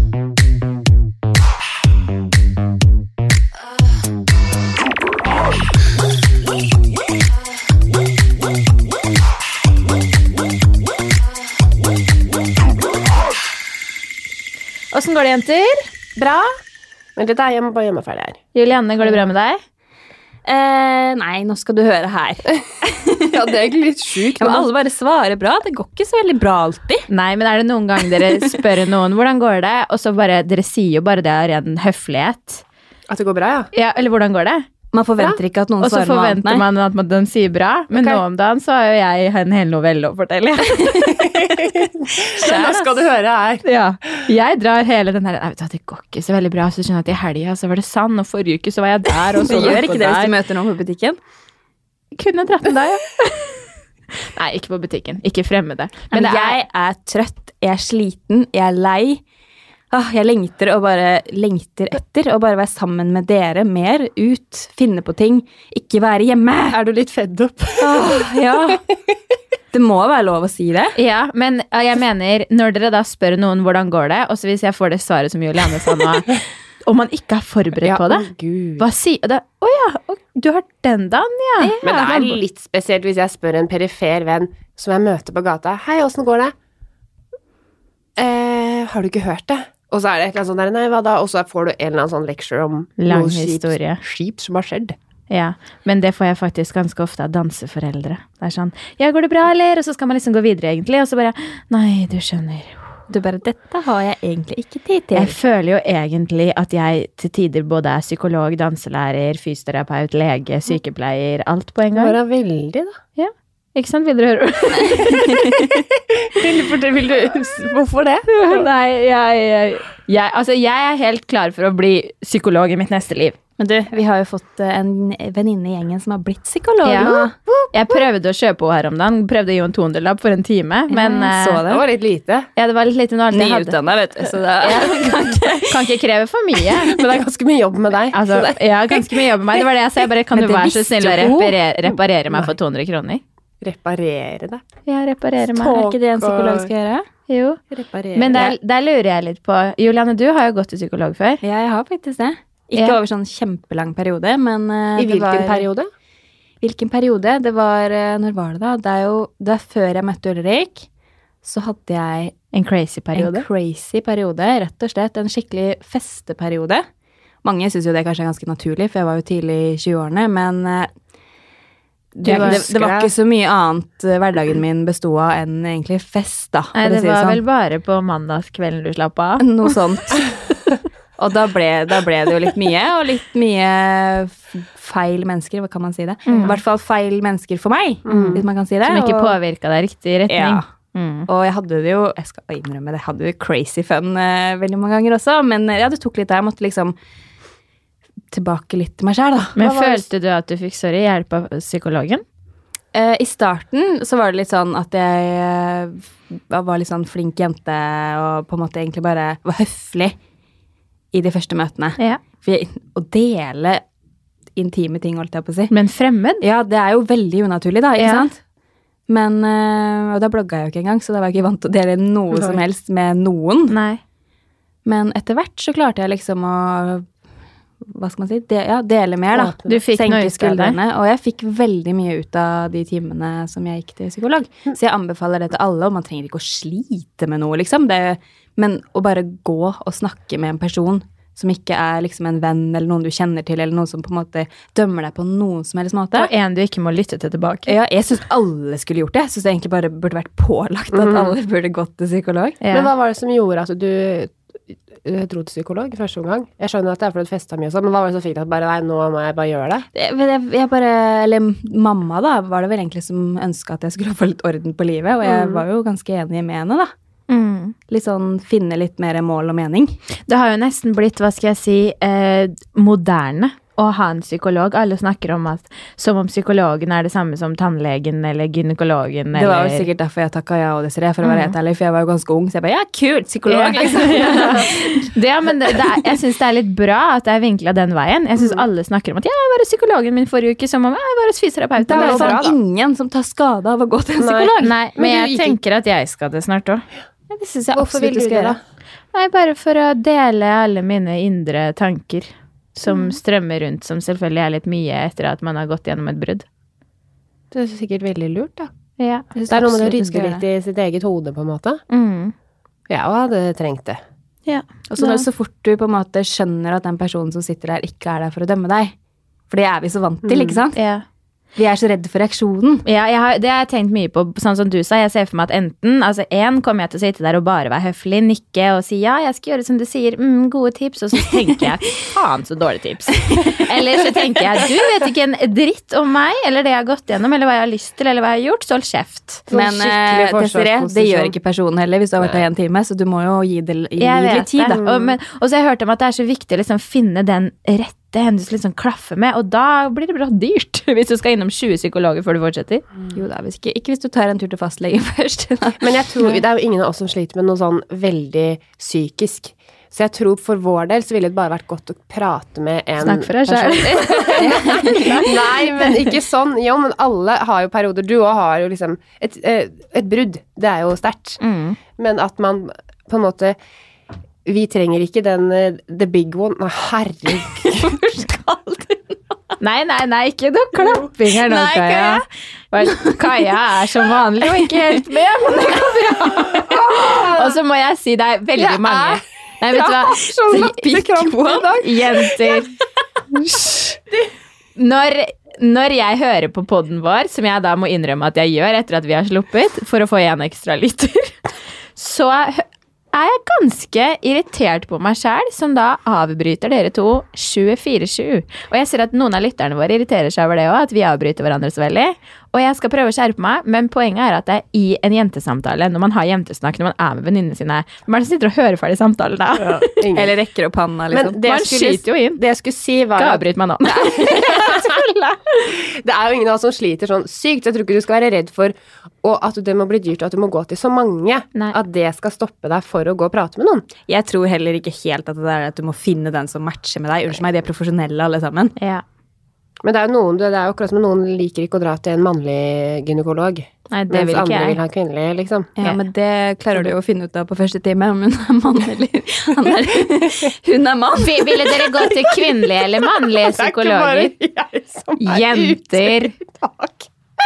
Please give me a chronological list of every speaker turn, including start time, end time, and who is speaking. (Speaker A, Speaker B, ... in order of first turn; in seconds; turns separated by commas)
Speaker A: 14.9-15.9, Speaker B: 16.2-16.5, Speaker B: 17.2-18.4, Speaker A: 18.6-19.6, Speaker C: 20.5-23.5, Speaker B: 23.3-24.7, Speaker C: 24.4-27.1, Speaker A: 27.1-32.6, Speaker C: 28.2-28.6, Speaker B: 33.1-33.7, Speaker A: 33.7-34.7, Speaker C: 34.9-36.6, Speaker A: 35.8-42.9, Speaker B: 37.9-38.2, Speaker B: 41.4-43.6, Speaker A: 43.6-50.3, Speaker C: 49.4-51.2, Speaker B: 49.5-49.9, Speaker A: 52.2-56.6, Speaker C: 56.1-59.2, Speaker C: 59.9-66.8, Speaker B: 66.7-68.2, Speaker C: 67.8-68.8, Speaker C: 69.7-71.0, Speaker A: 71.0-81.8, Speaker B: 77.8-78.9, Speaker C: 81.6-82.4, Speaker B: 81.8-86.5, Speaker B: 88.2-95.0, Speaker A: 93.0-94.0, Speaker A: 95.3-102.9, Speaker C: 103.1-105.4, Speaker A: 105.2-112.2, Speaker B: 112.0-112.9, Speaker A: 113.2-115.8, Speaker C: 114.8-115.9, Speaker B: 116.3-118.7, Speaker A: 118.3-123.4, Speaker C: 123.6-127.3, Speaker A: 126.8-127.2, Speaker B: 127.0-127.9, Speaker A: 127.7-131.7, Speaker C: 130.9-131.8, Speaker B: 131.7-132.5, Speaker A: 132.6-133.8, Speaker C: 133.3-136.0, Speaker A: 134.6-137.0, Speaker B: 136.8-138.6, Speaker A: 138.1-143.2, Speaker C: 140.3-141.6, Speaker B: 143.6-144.6, Speaker A: 144.9-145.8, Speaker C: 145.5-147.1, Speaker B: 145.7-146.7, Speaker A: 147.3-147.6, Speaker B: 147.7-148.5, Speaker A: 148.1-151.4, Speaker C: 151.4-155.7, Speaker B: 154.9-155.9, Speaker C: 156.6-160.9, Speaker C: 161.4-162.3, Speaker A: 162.5-163.4, Speaker C: 163.2-166.8, Speaker C: 167.4-170.9, Speaker C: 172.2-177.4, Speaker A: 172.2-172.6, Speaker B: 172.2-173.1, Speaker A: 176.8-179.5, Speaker C: 179.4-180.3, Speaker C: 181.2-189.4, Speaker A: 186.3-186.6, Speaker B: 188.1-188.4, Speaker A: 188.1-191.3, Speaker C: 190.3-190.6, Speaker C: 191.3-196.9, Speaker C: 198.3-200.1, Speaker A: 199.6-202.2, Speaker C: 202.9-210.2, Speaker C: 211.1-213.8, Speaker C: 214.6-215.7, Speaker A: 215.7-216.5, Speaker C: 216.4-218.4, Speaker A: 218.0-218.3, Speaker C: 219.1-223.8, Speaker B: 222.3-222.6, Speaker A: 223.7-224.0, Speaker C: 224.8-227.1, Speaker C: 227.8-246.3, Speaker B: 229.3-229.7, Speaker A: 229.7-230.8, Speaker A: 246.1-247.7, Speaker C: 247.7-252.6, Speaker B: 250.9-251.4, Speaker A: 252.6-252.9, Speaker B: 252.7-254.4, Speaker B: 255.0-259.9, Speaker C: 259.9-266.9, Speaker B: 265.2-265.6, Speaker A: 267.3-267.8, Speaker C: 267.9-270.0, Speaker A: 270.3-279.9, Speaker C: 279.3-285.1, Speaker A: 281.2-281.6, Speaker A: 283.5-292.4, Speaker B: 283.8-284.7, Speaker C: 291.8-294.8, Speaker B: 291.9-292.6, Speaker B: 294.2-295.6, Speaker A: 294.6-296.9, Speaker C: 297.3-298.6, Speaker B: 297.7-298.6, Speaker A: 299.1-306.4, Speaker B: 307.5-308.7, Speaker A: 309.0-309.3, Speaker C: 309.4-310.4, Speaker B: 309.5-311.8, Speaker A: 311.9-312.3, Speaker B: 312.9-314.0, Speaker A: 314.5-315.3, Speaker C: 314.9-318.9, Speaker C: 319.5-320.8, Speaker B: 320.2-320.6, Speaker A: 320.8-321.0, Speaker C: 321.6-322.9, Speaker A: 322.9-339.5, Speaker B: 339.5-341.4, Speaker C: 339.5-344.8, Speaker B: 342.2-342.4, Speaker A: 344.0-352.8, Speaker B: 344.7-345.2, Speaker C: 353.1-356.0, Speaker B: 355.8-371.4, Speaker A: 363.0-366.1, Speaker C: 364.4-365.4, Speaker A: 371.4-371.8, Speaker B: 372.0-373.6, Speaker B: 374.4-378.0, Speaker C: 377.7-379.0, Speaker A: 379.6-390.8, Speaker C: 381.2-382.2, Speaker B: 386.5-387.6, Speaker B: 388.6-392.1, Speaker C: 390.1-391.8, Speaker A: 391.7-392.7, Speaker A: 394.8-401.3, Speaker A: 402.0-420.0, Speaker B: 419.9-420.4, Speaker C: 420.1-421.4, Speaker B: 421.1-433.9, Speaker A: 421.4-422.4, Speaker A: 423.2-424.6, Speaker C: 434.1-438.8, Speaker A: 438.8-439.0, Speaker B: 439.8-445.7, Speaker A: 443.9-444.8, Speaker C: 445.8-451.8, Speaker A: 451.2-454.3, Speaker B: 453.4-457.1, Speaker A: 455.2-456.3